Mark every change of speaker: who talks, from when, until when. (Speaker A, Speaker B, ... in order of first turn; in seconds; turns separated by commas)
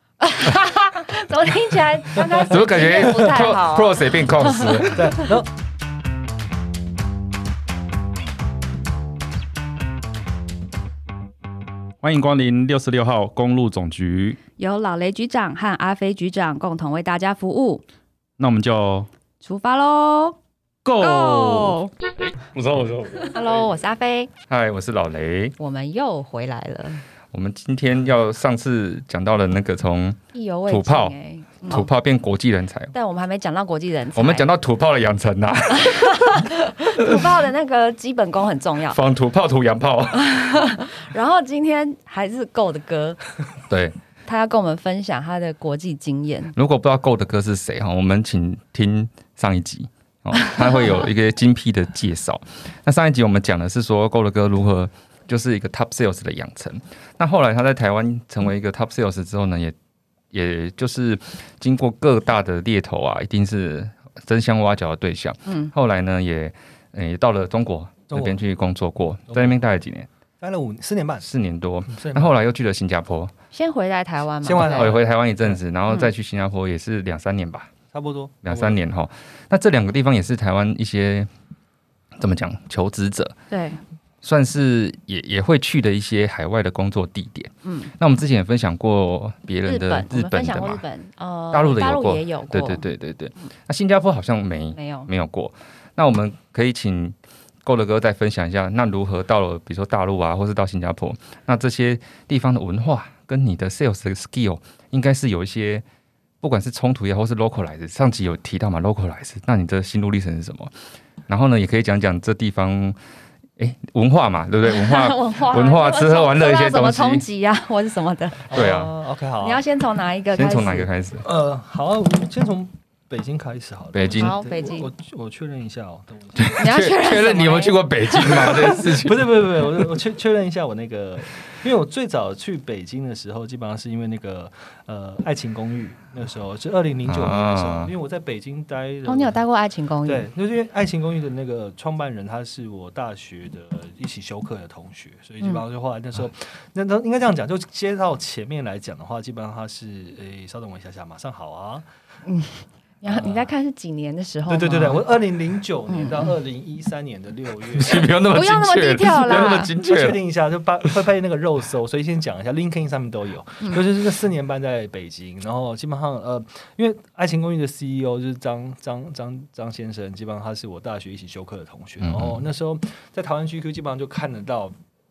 Speaker A: 0.2-5.0, Speaker B: 2.4-5.3, Speaker C: 4.9-5.5, Speaker D: 12.0-14.4, Speaker A: 14.6-17.8, Speaker D: 18.4-19.1, Speaker A: 19.4-20.4, Speaker D: 20.8-23.5, Speaker A: 21.0-21.9, Speaker A: 23.3-24.3, Speaker B: 24.5-25.6, Speaker A: 25.6-27.0, Speaker B: 27.3-31.1, Speaker A: 30.3-31.9, Speaker B: 31.7-32.9, Speaker A: 32.9-34.5, Speaker B: 34.1-37.2, Speaker A: 35.7-39.0, Speaker B: 38.9-40.4, Speaker A: 40.1-43.2, Speaker B: 43.7-44.0, Speaker A: 44.3-46.5, Speaker B: 46.5-59.8, Speaker B: 60.3-70.1, Speaker C: 68.1-68.4, Speaker C: 69.3-69.6, Speaker C: 70.4-71.3, Speaker B: 71.2-73.3, Speaker C: 71.9-72.3, Speaker A: 73.5-75.0, Speaker C: 74.4-75.6, Speaker B: 74.6-77.7, Speaker C: 77.9-78.8, Speaker B: 78.4-81.3, Speaker B: 82.2-83.4, Speaker A: 83.5-83.8, Speaker B: 84.2-90.8, Speaker A: 87.6-87.9, Speaker A: 89.7-92.9, Speaker B: 91.5-105.8, Speaker A: 94.8-95.1, Speaker B: 106.4-110.7, Speaker B: 111.3-113.0, Speaker B: 113.6-117.2, Speaker A: 114.6-118.8, Speaker C: 118.5-119.6, Speaker B: 118.5-118.9, Speaker A: 119.4-120.9, Speaker B: 120.3-121.2, Speaker C: 121.2-126.5, Speaker B: 123.9-124.3, Speaker A: 124.1-124.9, Speaker B: 126.4-129.9, Speaker A: 126.6-128.6, Speaker C: 128.2-139.4, Speaker B: 137.1-137.9, Speaker A: 139.1-140.3, Speaker C: 140.1-151.8, Speaker A: 152.3-155.2, Speaker C: 153.1-153.5, Speaker C: 154.5-158.2, Speaker A: 155.9-156.3, Speaker B: 157.7-160.2, Speaker A: 158.2-159.7, Speaker C: 159.3-174.7, Speaker B: 172.0-172.4